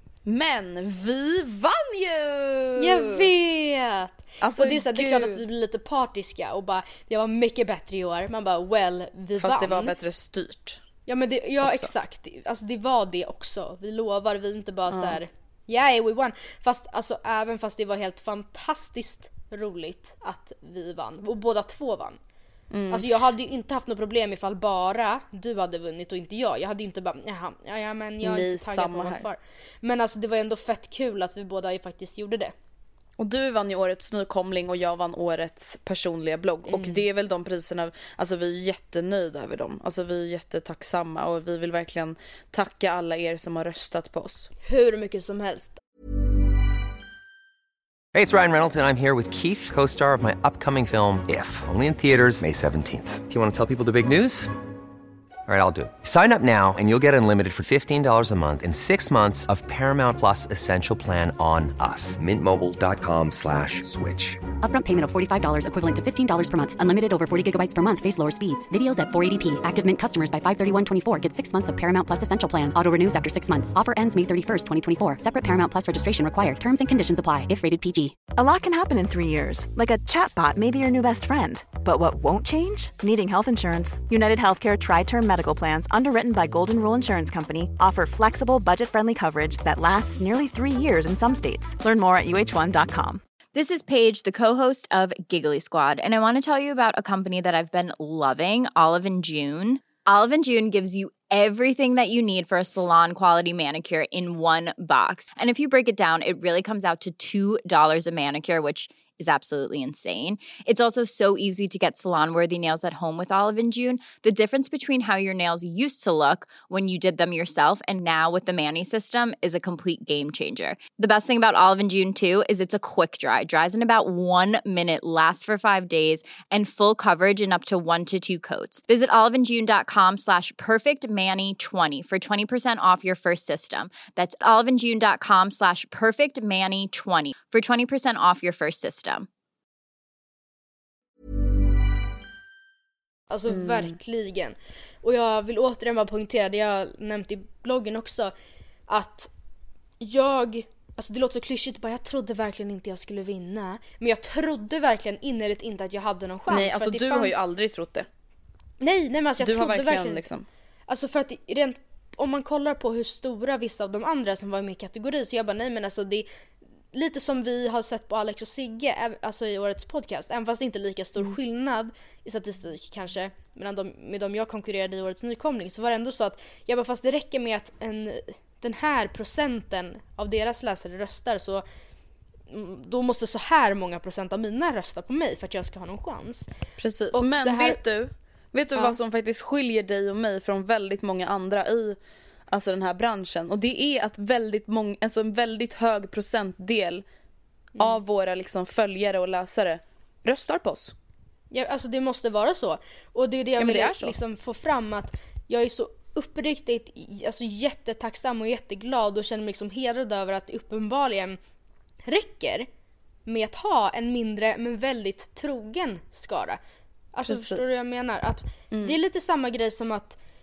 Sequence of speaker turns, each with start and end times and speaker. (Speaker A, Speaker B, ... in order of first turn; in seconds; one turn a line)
Speaker A: 0.3-3.3
Speaker B: 2.8-9.9
Speaker A: 4.4-5.4
Speaker A: 9.4-10.8
Speaker B: 11.1-22.2
Speaker A: 11.6-11.9
Speaker A: 14.9-15.2
Speaker A: 22.7-23.1
Speaker B: 22.9-32.5
Speaker A: 28.2-29.3
Speaker A: 33.2-44.5
Speaker B: 36.7-37.0
Speaker B: 44.6-45.8
Speaker C: 48.1-54.5
Speaker C: 55.5-64.5
Speaker D: 64.6-78.2
Speaker E: 78.4-93.2
Speaker F: 93.5-139.3
Speaker B: 143.3-148.3
Speaker A: 143.5-143.9
Speaker B: 148.9-149.3
Speaker B: 150.0-157.4
Speaker A: 156.5-158.1
Speaker B: 158.8-160.2
Speaker A: 159.4-160.5
Speaker B: 160.9-166.3
Speaker B: 166.9-181.6
Speaker B: 182.5-186.5
Speaker A: 186.8-192.0
Speaker B: 187.1-187.8
Speaker A: 192.5-197.0
Speaker A: 197.8-200.9
Speaker B: 201.5-211.4
Speaker A: 203.6-204.2
Speaker B: 212.0-212.7
Speaker B: 213.3-216.6
Speaker B: 217.1-220.2
Speaker A: 217.3-217.8
Speaker A: 218.7-219.0